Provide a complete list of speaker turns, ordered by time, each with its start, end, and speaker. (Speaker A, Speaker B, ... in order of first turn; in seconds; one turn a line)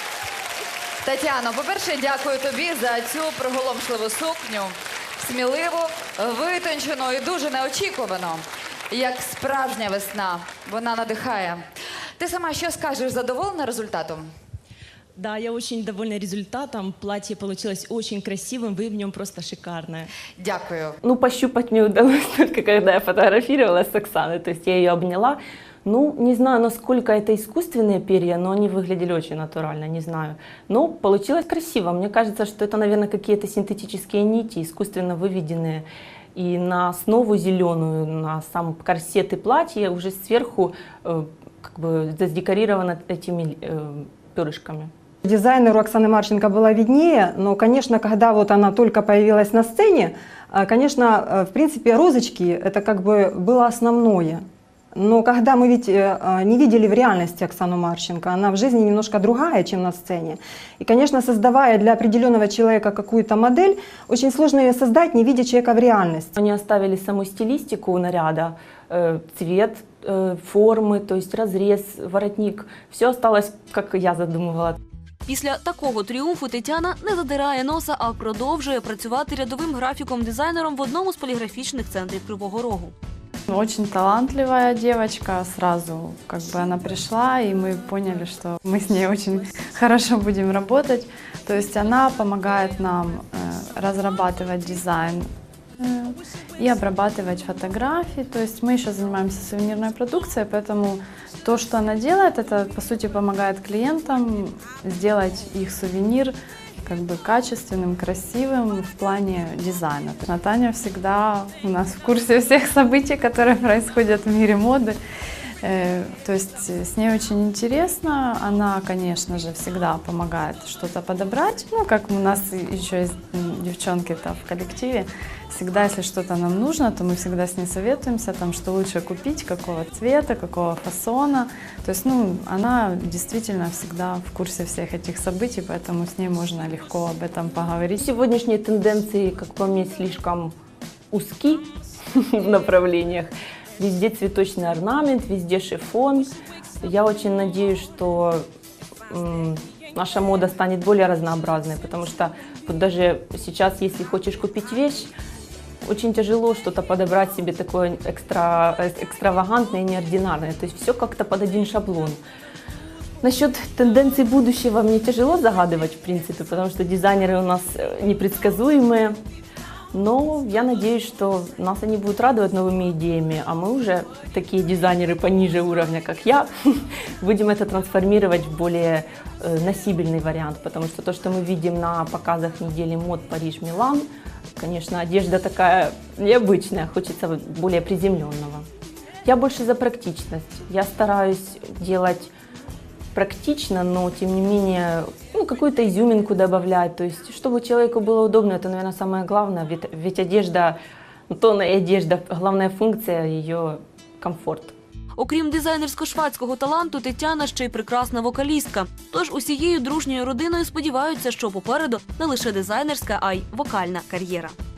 Speaker A: 1.0-11.6
Speaker A: 12.2-14.3
Speaker B: 15.2-20.1
Speaker A: 20.4-20.9
Speaker C: 21.0-44.9
Speaker D: 45.2-66.3
Speaker C: 66.3-74.8
Speaker E: 75.2-82.9
Speaker F: 83.5-115.0
Speaker F: 115.6-138.0
Speaker C: 138.0-140.5
Speaker C: 141.1-146.3
Speaker C: 146.8-148.4
Speaker C: 149.1-155.1
Speaker C: 155.8-162.2
Speaker C: 163.2-169.2
Speaker C: 169.9-188.7
Speaker C: 189.2-192.3
Speaker C: 193.1-200.8
Speaker C: 201.3-204.7
Speaker E: 205.2-214.6